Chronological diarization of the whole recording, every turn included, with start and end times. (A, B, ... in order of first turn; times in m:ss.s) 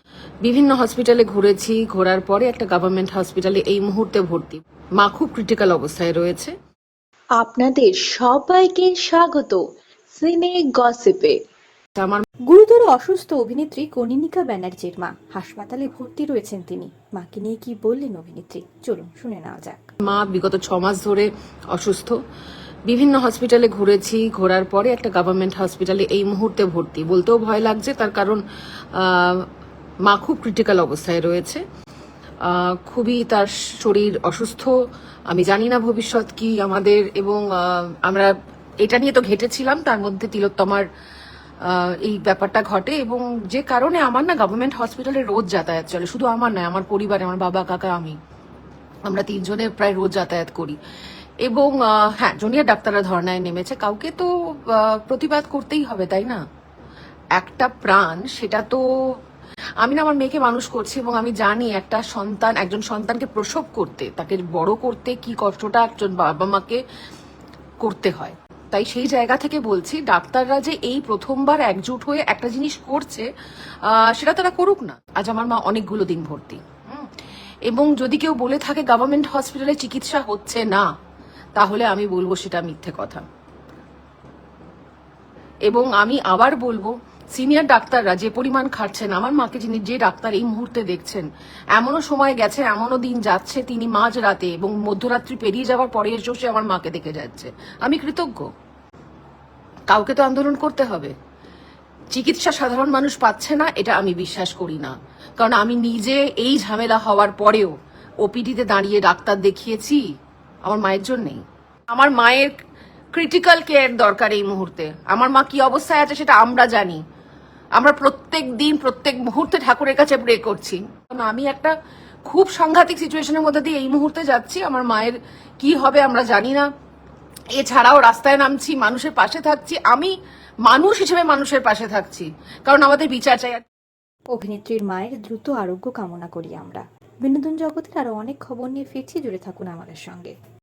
0:00.4-0:06.5 A
0:07.4-0:09.6 B
0:10.1-0:11.4 B
0:12.0-0:12.2 A
0:12.5-0:19.8 C
0:20.0-0:22.1 A
0:22.9-0:28.4 A
0:29.0-0:29.4 A
0:30.0-0:31.6 A
0:32.4-0:34.7 A
0:35.3-0:40.8 A
0:41.6-0:48.2 A
0:49.1-0:50.8 A
0:51.4-0:56.4 A
0:57.4-0:58.8 A
0:59.8-1:06.8 A
1:07.8-1:13.3 A
1:13.9-1:17.1 A
1:17.7-1:20.9 A
1:21.6-1:23.2 A
1:25.7-1:38.5 A
1:39.9-1:41.1 A
1:42.1-1:50.0 A
1:50.6-1:51.4 A
1:51.9-1:52.5 A
1:53.1-1:57.0 A
1:57.8-2:01.7 A
2:02.3-2:06.6 A
2:07.6-2:10.1 A
2:10.6-2:13.6 A
2:14.3-2:20.3 C